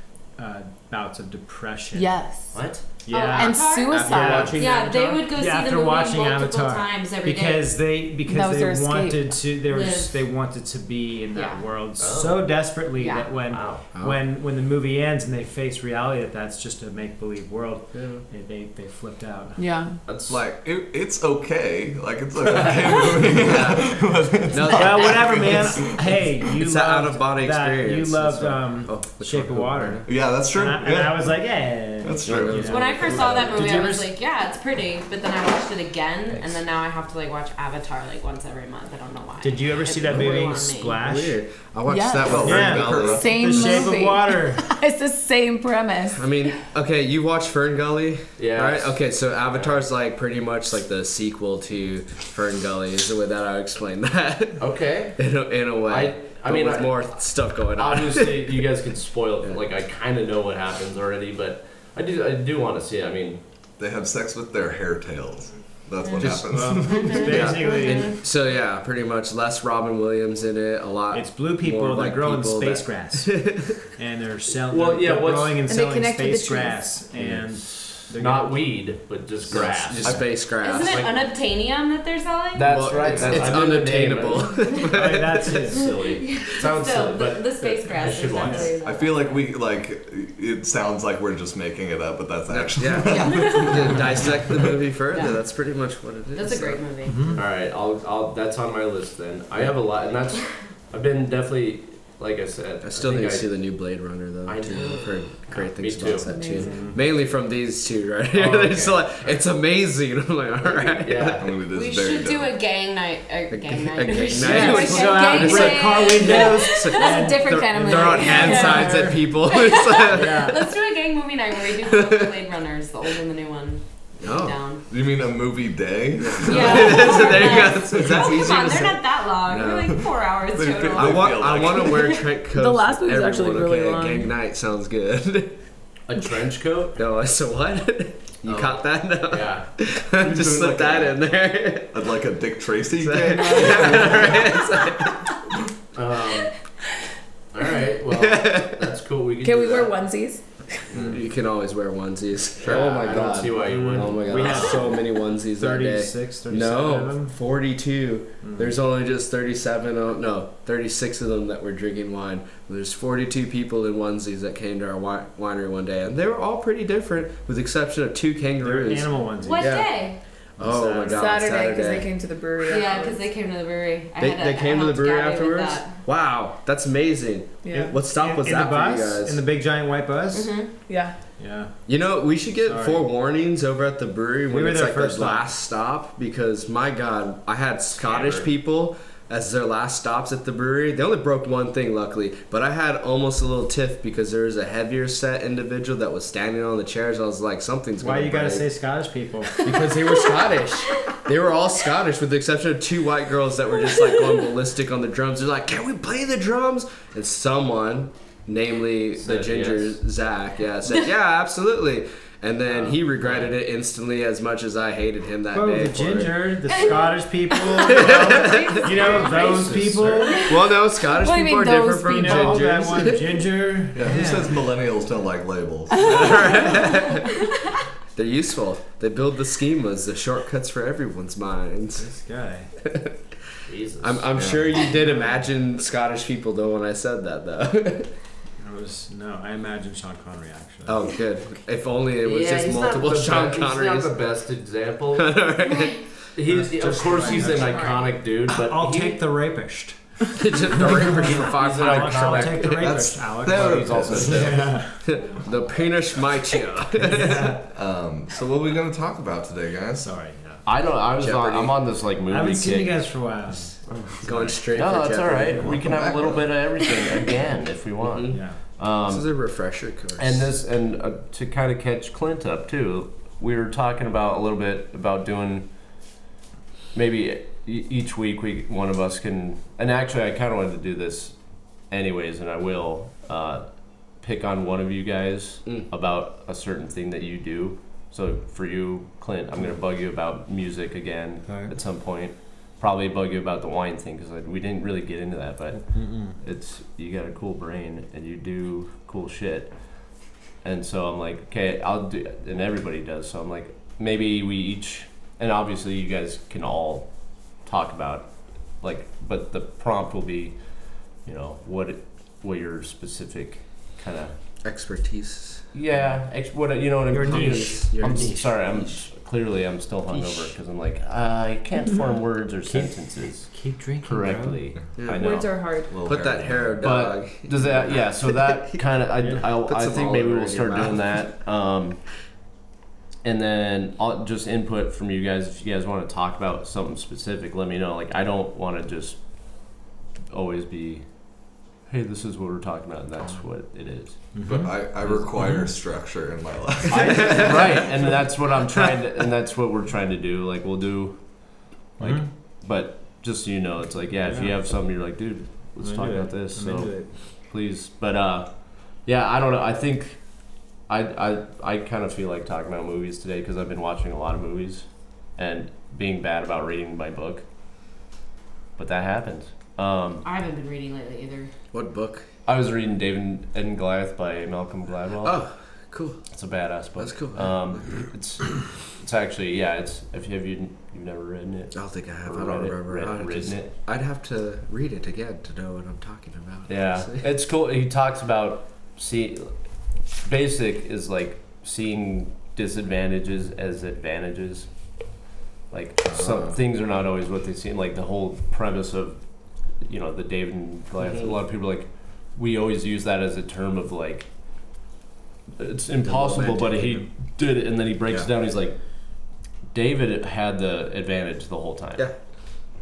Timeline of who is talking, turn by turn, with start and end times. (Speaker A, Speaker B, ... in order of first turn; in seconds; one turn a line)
Speaker A: 0.4-2.2
Speaker B: 1.9-2.6
Speaker C: 2.5-2.8
Speaker A: 3.0-19.7
Speaker D: 3.1-7.8
Speaker B: 3.2-4.6
Speaker E: 3.9-4.7
Speaker B: 8.2-9.4
Speaker D: 9.6-10.3
Speaker D: 11.3-11.7
Speaker C: 12.0-12.6
Speaker D: 12.9-13.3
Speaker C: 13.5-13.8
Speaker E: 13.9-14.2
Speaker E: 17.9-18.2
Speaker B: 19.6-20.0
Speaker C: 20.1-20.4
Speaker F: 20.3-26.1
Speaker E: 22.6-23.9
Speaker E: 24.5-25.6
Speaker A: 24.7-34.1
Speaker E: 26.6-30.1
Speaker F: 30.1-31.4
Speaker F: 32.0-32.8
Speaker E: 32.3-33.6
Speaker D: 32.6-41.0
Speaker A: 39.4-41.4
Speaker E: 40.1-43.9
Speaker B: 41.9-42.4
Speaker F: 42.2-43.8
Speaker A: 42.4-44.7
Speaker B: 43.1-46.3
Speaker E: 46.1-54.6
Speaker C: 48.4-49.0
Speaker C: 49.5-49.8
Speaker C: 54.6-55.2
Speaker E: 55.2-58.6
Speaker C: 55.9-57.2
Speaker C: 57.7-63.4
Speaker F: 63.8-67.7
Speaker D: 66.0-68.2
Speaker A: 66.2-68.2
Speaker E: 67.3-73.8
Speaker A: 71.1-78.7
Speaker C: 74.5-75.7
Speaker B: 75.7-76.9
Speaker E: 77.2-77.5
Speaker C: 77.5-81.3
Speaker A: 79.5-80.1
Speaker E: 79.5-81.0
Speaker D: 80.6-83.2
Speaker C: 82.5-84.8
Speaker E: 82.7-85.8
Speaker F: 83.0-83.8
Speaker D: 84.4-84.8
Speaker A: 84.9-86.0
Speaker C: 85.4-88.7
Speaker D: 86.2-89.4
Speaker A: 88.1-88.7
Speaker F: 88.8-94.8
Speaker E: 92.5-96.8
Speaker D: 93.1-93.8
Speaker D: 95.1-95.4
Speaker D: 96.3-97.4
Speaker A: 97.1-97.4
Speaker C: 97.3-103.5
Speaker E: 102.8-111.4
Speaker C: 104.5-106.5
Speaker B: 106.2-106.9
Speaker A: 106.6-107.0
Speaker C: 108.3-109.2
Speaker C: 110.6-111.5
Speaker F: 111.3-112.6
Speaker D: 111.6-117.3
Speaker E: 113.5-120.6
Speaker A: 114.4-119.3
Speaker B: 116.9-118.9
Speaker D: 118.2-124.8
Speaker A: 120.1-120.6
Speaker E: 121.7-122.4
Speaker E: 124.2-124.6
Speaker F: 124.9-128.3
Speaker E: 126.2-130.0
Speaker D: 126.4-132.2
Speaker F: 130.5-132.2
Speaker E: 130.9-135.6
Speaker B: 132.5-134.3
Speaker C: 136.1-137.0
Speaker E: 137.0-142.1
Speaker C: 138.4-139.7
Speaker F: 140.1-141.2
Speaker F: 141.9-144.6
Speaker E: 143.0-145.3
Speaker C: 145.9-146.5
Speaker C: 147.5-150.0
Speaker E: 148.1-148.8
Speaker B: 149.4-150.8
Speaker E: 151.0-170.0
Speaker C: 152.6-154.9
Speaker A: 153.4-157.3
Speaker A: 158.4-158.8
Speaker A: 168.6-169.9
Speaker D: 169.4-170.2
Speaker A: 170.6-171.4
Speaker E: 170.6-172.1
Speaker B: 171.1-173.2
Speaker D: 172.6-176.0
Speaker E: 174.2-179.4
Speaker B: 177.6-178.0
Speaker A: 177.7-180.6
Speaker D: 180.3-180.7
Speaker B: 180.9-181.2
Speaker A: 181.4-181.8
Speaker E: 181.9-198.8
Speaker A: 182.6-183.1
Speaker A: 184.5-185.4
Speaker C: 188.0-188.5
Speaker A: 198.0-199.7
Speaker E: 199.6-216.7
Speaker C: 209.2-210.0
Speaker C: 212.8-213.5
Speaker A: 215.5-220.5
Speaker D: 216.7-220.6
Speaker E: 217.8-219.2
Speaker C: 219.1-220.3
Speaker E: 220.5-223.5
Speaker B: 221.1-222.8
Speaker A: 222.1-224.6
Speaker F: 223.9-226.8
Speaker E: 226.0-227.3
Speaker B: 226.0-226.3
Speaker E: 228.2-232.1
Speaker A: 232.0-232.7
Speaker E: 232.8-233.3
Speaker C: 233.7-234.4
Speaker E: 234.0-238.1
Speaker F: 234.4-234.8
Speaker A: 235.0-235.4
Speaker A: 238.6-241.0
Speaker E: 240.9-244.2
Speaker C: 242.2-245.4
Speaker E: 245.1-246.0
Speaker D: 245.7-246.0
Speaker C: 246.3-249.2
Speaker A: 246.4-255.2
Speaker D: 247.6-247.9
Speaker E: 250.3-257.6
Speaker C: 251.4-254.7
Speaker F: 252.8-254.5
Speaker A: 257.0-257.7
Speaker F: 257.7-260.1
Speaker A: 260.0-260.6
Speaker C: 260.6-263.0
Speaker E: 261.2-261.8
Speaker A: 262.3-264.6
Speaker E: 264.2-266.3
Speaker C: 264.7-269.3
Speaker F: 265.6-266.5
Speaker E: 268.0-268.4
Speaker A: 268.3-268.6
Speaker E: 269.1-270.5
Speaker C: 270.2-275.7
Speaker C: 276.9-281.4
Speaker C: 281.9-283.6
Speaker C: 284.2-299.7
Speaker A: 291.5-291.7
Speaker A: 295.8-296.4
Speaker C: 300.6-307.1
Speaker C: 307.6-310.6
Speaker C: 311.2-314.4
Speaker E: 314.6-315.6
Speaker C: 315.7-332.0
Speaker A: 317.1-318.6
Speaker E: 317.2-318.4
Speaker E: 320.1-320.5
Speaker A: 322.7-324.6
Speaker E: 325.0-328.8
Speaker B: 325.1-325.9
Speaker F: 325.9-326.8
Speaker E: 329.4-331.2
Speaker C: 333.2-339.2
Speaker C: 340.3-341.1
Speaker C: 341.9-344.4
Speaker A: 344.3-344.8
Speaker F: 344.4-347.9
Speaker C: 345.0-345.6
Speaker C: 346.9-351.2
Speaker C: 352.0-360.2
Speaker A: 352.0-352.3
Speaker A: 354.3-354.5
Speaker A: 355.8-357.1
Speaker C: 360.9-367.4
Speaker C: 368.8-370.3
Speaker D: 370.2-371.5
Speaker E: 371.7-372.3
Speaker C: 372.5-375.4
Speaker E: 375.2-376.2
Speaker C: 376.3-383.7
Speaker E: 377.0-377.9
Speaker E: 381.7-387.3
Speaker C: 386.7-389.5
Speaker C: 390.2-394.7
Speaker C: 395.7-399.2
Speaker E: 396.1-396.6
Speaker C: 399.8-404.3
Speaker E: 401.0-401.3
Speaker C: 405.6-408.8
Speaker E: 406.0-407.1
Speaker C: 409.7-412.1